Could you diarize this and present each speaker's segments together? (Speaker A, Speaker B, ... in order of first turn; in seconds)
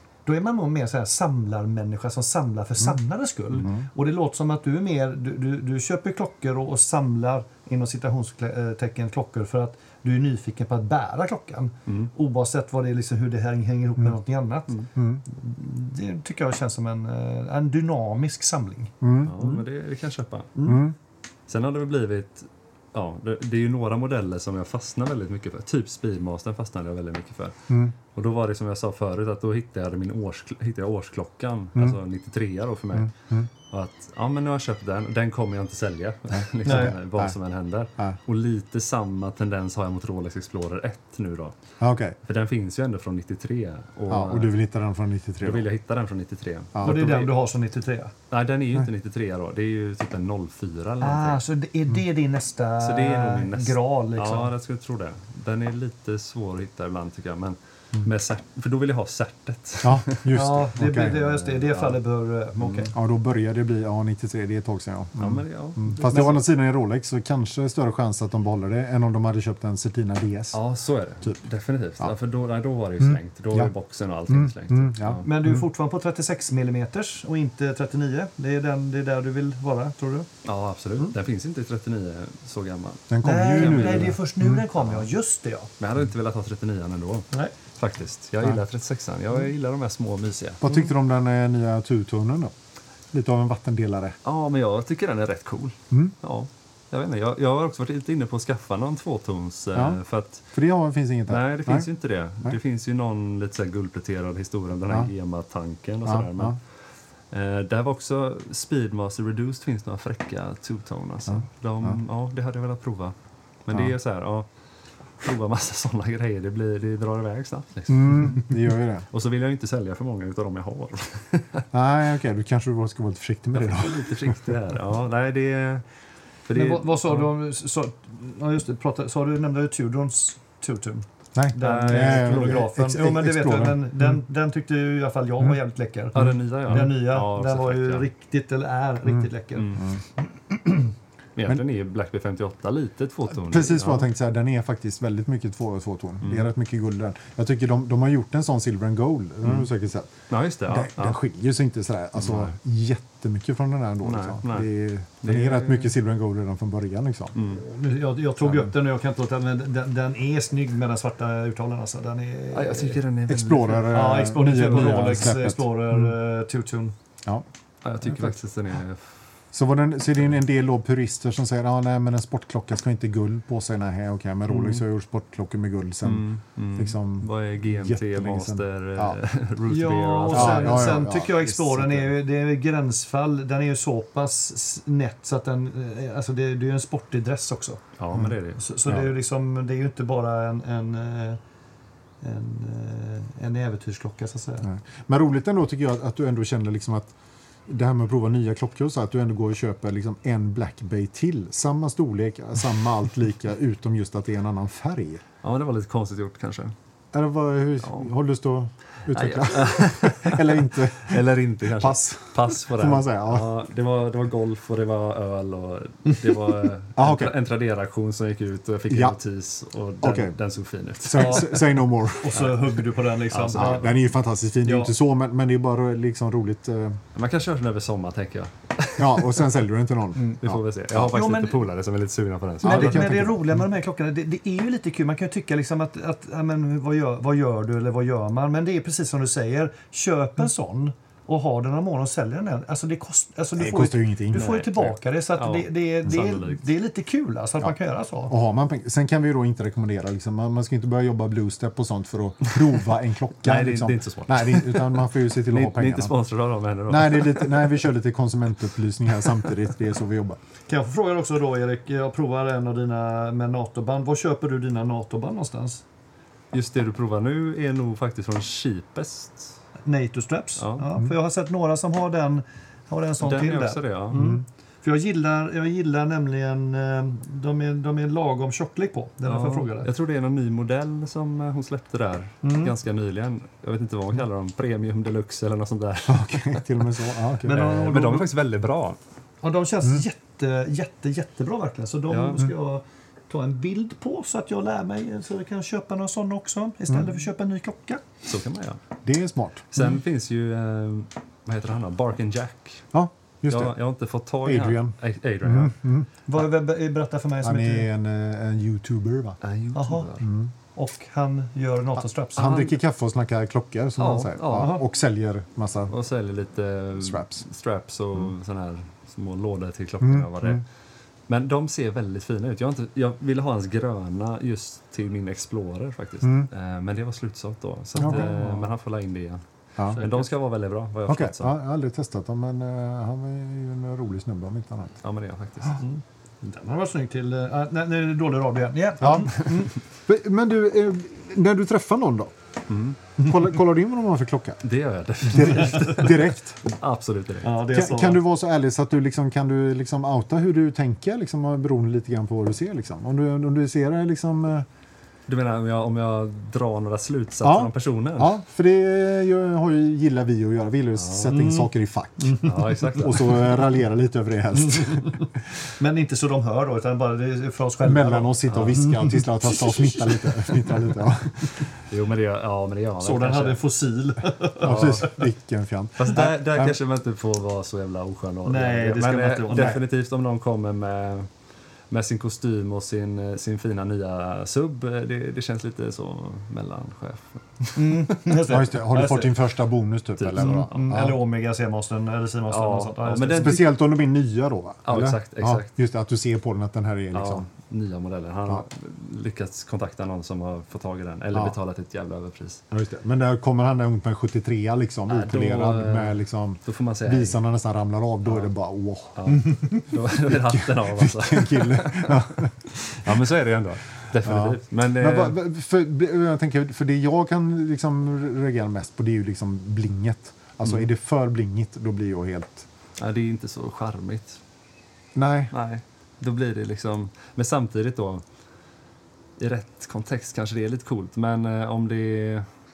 Speaker A: 0.3-19.5, 20.6-20.8, 36.6-37.0, 46.8-48.1, 51.0-54.5, 60.3-62.9, 66.0-66.4, 75.2-80.3, 83.2-85.7, 126.5-139.7, 140.5-140.9, 157.5-163.0, 163.8-166.9, 179.7-187.8, 188.6-191.4, 192.2-194.7, 221.1-223.9, 224.6-224.9, 231.0-231.6, 232.6-248.3, 260.7-265.8, 269.9-279.9, 282.4-282.7, 287.4-288.3, 289.4-298.0, 306.3-307.9, 309.7-310.1, 310.8-312.7, 314.5-314.8, 336.4-339.7, 347.4-348.2, 361.3-361.7, 362.2-362.5, 364.6-370.2, 373.0-375.1, 378.4-379.8, 387.8-389.4, 390.4-393.6
Speaker B: 3.6-3.9, 14.9-15.2, 19.0-19.4, 20.6-20.9, 32.9-33.5, 36.6-37.4, 41.8-42.2, 44.1-45.7, 46.8-47.0, 59.8-61.3, 62.9-70.6, 73.0-73.7, 74.3-75.7, 83.1-84.6, 90.6-92.5, 93.1-94.2, 99.8-100.0, 100.5-101.9, 106.0-106.6, 111.3-112.0, 117.9-119.0, 121.7-124.6, 131.3-134.1, 136.2-136.9, 139.1-140.0, 143.3-150.1, 150.7-157.4, 158.4-158.7, 163.3-166.1, 169.5-179.2, 180.3-181.9, 194.6-197.1, 197.7-205.2, 207.1-213.5, 217.0-217.4, 218.9-219.2, 220.0-220.4, 221.0-222.6, 223.5-227.0, 229.0-230.6, 232.6-233.6, 243.6-244.5, 248.3-256.1, 256.9-260.4, 274.1-274.4, 286.1-287.9, 299.0-299.8, 302.9-303.8, 304.4-306.1, 307.4-309.4, 310.2-310.5, 312.4-315.9, 317.0-317.4, 320.0-320.6, 326.2-326.5, 328.0-328.7, 331.1-335.0, 339.0-342.3, 343.2-344.6, 345.2-346.6, 347.7-354.7, 357.4-365.2, 367.8-371.7, 374.6-376.8, 379.5-379.8, 388.4-391.2, 393.3-397.5, 402.7-409.4, 410.1-412.5, 414.2-422.7, 425.1-425.5
Speaker C: 11.9-12.1, 19.2-20.6, 21.5-33.1, 33.7-41.5, 42.3-44.5, 45.4-47.3, 48.3-51.4, 52.8-60.4, 61.0-62.0, 62.6-62.9, 65.2-66.4, 70.5-75.3, 80.5-84.2, 84.7-85.1, 85.8-90.7, 94.2-100.5, 101.3-106.6, 107.3-113.2, 113.7-114.5, 115.2-121.6, 123.5-125.8, 126.5-127.3, 131.6-132.5, 136.2-138.1, 139.6-139.9, 141.4-144.1, 146.2-146.5, 149.4-149.7, 150.3-151.2, 152.2-152.5, 154.0-154.7, 155.2-155.9, 157.3-157.6, 162.5-164.2, 167.8-169.0, 174.5-174.8, 176.0-181.9, 188.0-188.6, 205.4-206.7, 207.8-208.1, 209.1-221.7, 223.3-223.9, 227.2-229.5, 230.4-233.4, 244.3-246.6, 253.4-257.9, 266.5-269.6, 270.6-270.9, 273.2-274.2, 279.2-286.9, 287.4-289.0, 292.1-292.5, 298.3-298.8, 299.7-302.9, 303.5-305.8, 309.4-310.3, 314.0-314.8, 315.9-320.6, 321.3-331.6, 335.0-335.9, 342.7-343.0, 344.6-347.6, 355.3-358.4, 361.0-361.4, 362.4-363.6, 368.5-368.8, 371.8-373.6, 374.6-375.2, 376.0-381.3, 381.9-388.2, 390.2-390.9, 392.5-393.7, 394.9-395.7, 397.1-402.6, 405.1-407.4, 409.2-415.4, 423.0-424.4, 425.5-428.2, 429.4-432.5